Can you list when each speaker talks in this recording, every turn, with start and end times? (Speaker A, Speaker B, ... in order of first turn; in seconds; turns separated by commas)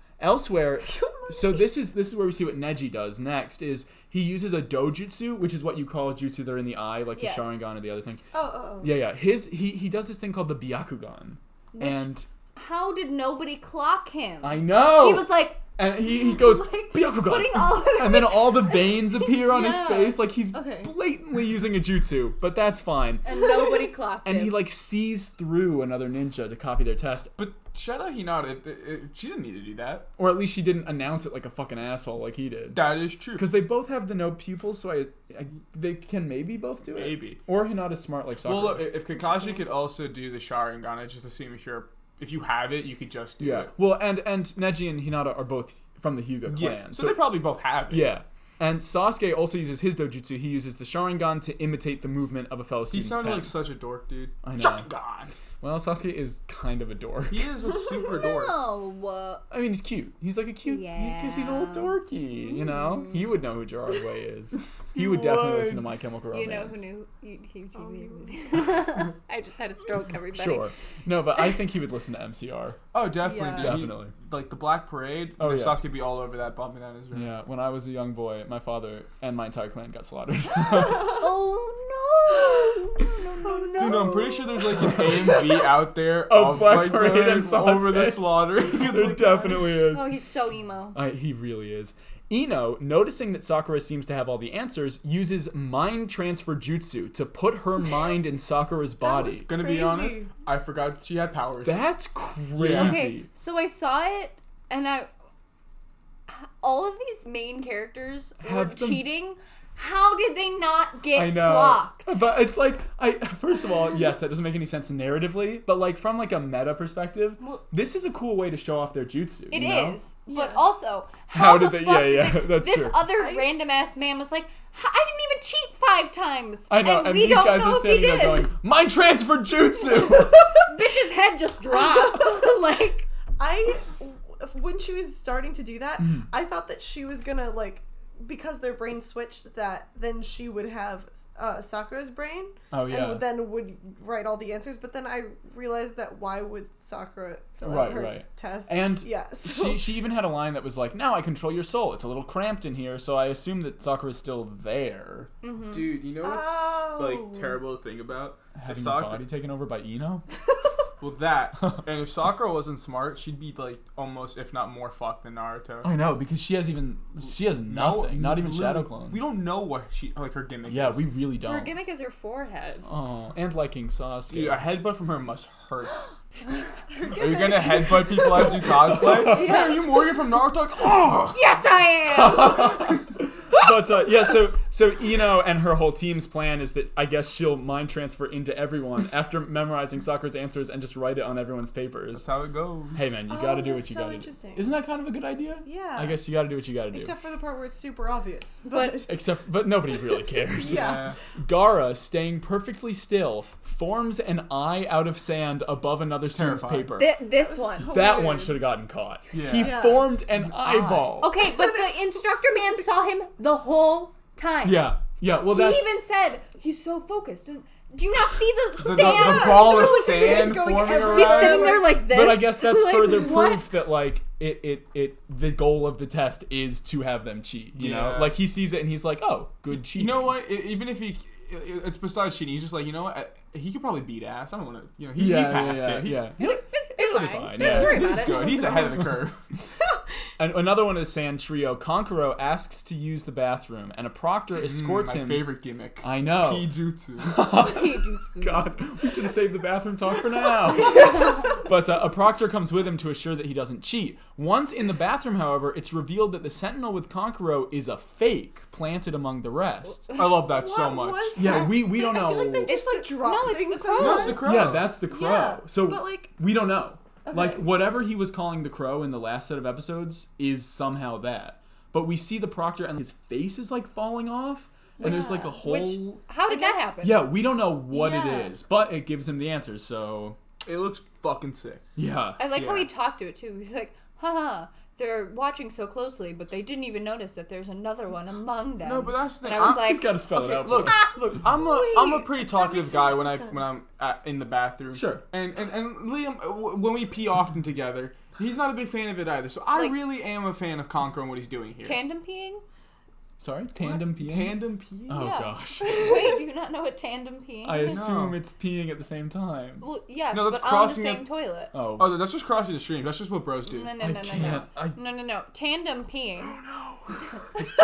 Speaker A: 0.2-8.2, Speaker B: 0.9-1.6, Speaker C: 7.2-7.6, Speaker B: 8.3-8.9, Speaker A: 8.8-12.3, Speaker C: 11.7-19.0, Speaker A: 14.4-23.2, Speaker B: 19.4-20.9, Speaker C: 23.2-24.6, Speaker A: 24.2-27.3, Speaker D: 27.4-30.1, Speaker A: 30.2-38.9, Speaker D: 32.7-33.5, Speaker D: 36.9-37.4, Speaker D: 38.4-43.7, Speaker A: 43.4-47.3, Speaker D: 46.5-48.1, Speaker A: 47.9-53.6, Speaker D: 52.9-55.3, Speaker A: 54.4-54.9, Speaker A: 55.6-57.5, Speaker D: 57.3-58.6, Speaker C: 58.0-59.4, Speaker A: 59.5-66.8, Speaker C: 60.6-63.3, Speaker D: 64.9-65.8, Speaker C: 66.3-70.7, Speaker B: 67.7-68.6, Speaker A: 70.3-72.8, Speaker D: 72.9-77.3, Speaker B: 73.2-73.8, Speaker A: 73.6-74.1, Speaker A: 75.4-75.8, Speaker A: 77.1-81.2, Speaker C: 80.9-85.0, Speaker B: 83.4-84.1, Speaker D: 83.8-89.6, Speaker A: 86.3-90.1, Speaker B: 88.7-89.8, Speaker C: 89.9-91.0, Speaker A: 90.9-99.5, Speaker B: 99.0-100.3, Speaker D: 99.4-101.8, Speaker A: 101.6-103.3, Speaker D: 102.5-103.0, Speaker C: 102.7-105.1, Speaker C: 106.3-112.2, Speaker A: 108.4-109.0, Speaker A: 111.1-120.0, Speaker C: 119.5-128.5, Speaker B: 120.3-120.6, Speaker A: 121.3-123.0, Speaker B: 123.2-123.5, Speaker A: 126.7-130.7, Speaker C: 130.5-133.1, Speaker B: 131.7-132.4, Speaker B: 133.4-149.9, Speaker A: 136.0-136.3, Speaker A: 142.7-143.2, Speaker A: 147.6-155.3, Speaker C: 155.4-155.9, Speaker D: 155.7-159.2, Speaker B: 156.2-157.6, Speaker A: 158.5-160.3, Speaker D: 161.0-165.9, Speaker A: 165.8-169.2, Speaker D: 167.7-171.0, Speaker A: 170.7-171.7, Speaker C: 171.4-172.8, Speaker A: 172.8-174.7, Speaker D: 174.3-176.0, Speaker B: 176.9-178.6, Speaker D: 177.1-181.4, Speaker A: 179.0-179.6, Speaker C: 179.1-180.0, Speaker C: 181.3-183.0, Speaker A: 182.1-192.3, Speaker D: 192.1-193.0, Speaker A: 192.9-197.1, Speaker B: 193.3-194.7, Speaker B: 195.6-196.2, Speaker B: 196.9-199.2, Speaker C: 198.7-199.1, Speaker A: 199.1-207.2, Speaker B: 200.5-201.2, Speaker D: 200.7-201.2, Speaker D: 206.3-206.9, Speaker C: 207.0-207.9, Speaker B: 207.3-208.6, Speaker A: 207.8-211.3, Speaker D: 209.3-209.9, Speaker B: 209.5-210.1, Speaker D: 210.4-211.3, Speaker C: 211.2-214.9, Speaker B: 211.4-212.1, Speaker A: 214.6-215.9, Speaker C: 215.4-223.7, Speaker D: 218.8-221.8, Speaker B: 218.8-222.0, Speaker A: 221.8-230.3, Speaker D: 227.8-228.4, Speaker D: 229.9-236.3, Speaker A: 235.2-238.1, Speaker C: 236.4-238.9, Speaker D: 237.6-239.4, Speaker B: 238.2-239.0, Speaker A: 240.4-260.1, Speaker D: 244.5-247.4, Speaker C: 247.5-248.8, Speaker C: 250.8-251.6, Speaker D: 260.1-261.7, Speaker B: 260.4-266.3, Speaker A: 261.4-262.8, Speaker C: 262.6-264.5, Speaker D: 263.9-264.9, Speaker A: 264.4-276.2, Speaker B: 267.2-267.7, Speaker B: 275.0-275.6, Speaker C: 275.0-277.3, Speaker B: 276.5-276.9, Speaker A: 277.0-280.4, Speaker B: 277.9-278.5, Speaker D: 280.6-281.9, Speaker A: 281.9-282.4, Speaker C: 282.4-290.1, Speaker D: 282.5-282.9, Speaker D: 288.8-302.0, Speaker A: 289.5-291.0, Speaker C: 290.9-291.1, Speaker B: 291.5-293.8, Speaker A: 294.9-295.2, Speaker C: 301.8-302.6, Speaker A: 303.4-306.2, Speaker D: 303.8-305.3, Speaker C: 305.1-308.0, Speaker A: 307.6-309.9, Speaker D: 307.9-308.4, Speaker C: 309.8-311.7, Speaker D: 310.3-311.2, Speaker A: 311.7-312.2, Speaker D: 312.0-313.9, Speaker C: 313.6-316.6, Speaker A: 314.0-315.0, Speaker A: 316.5-317.1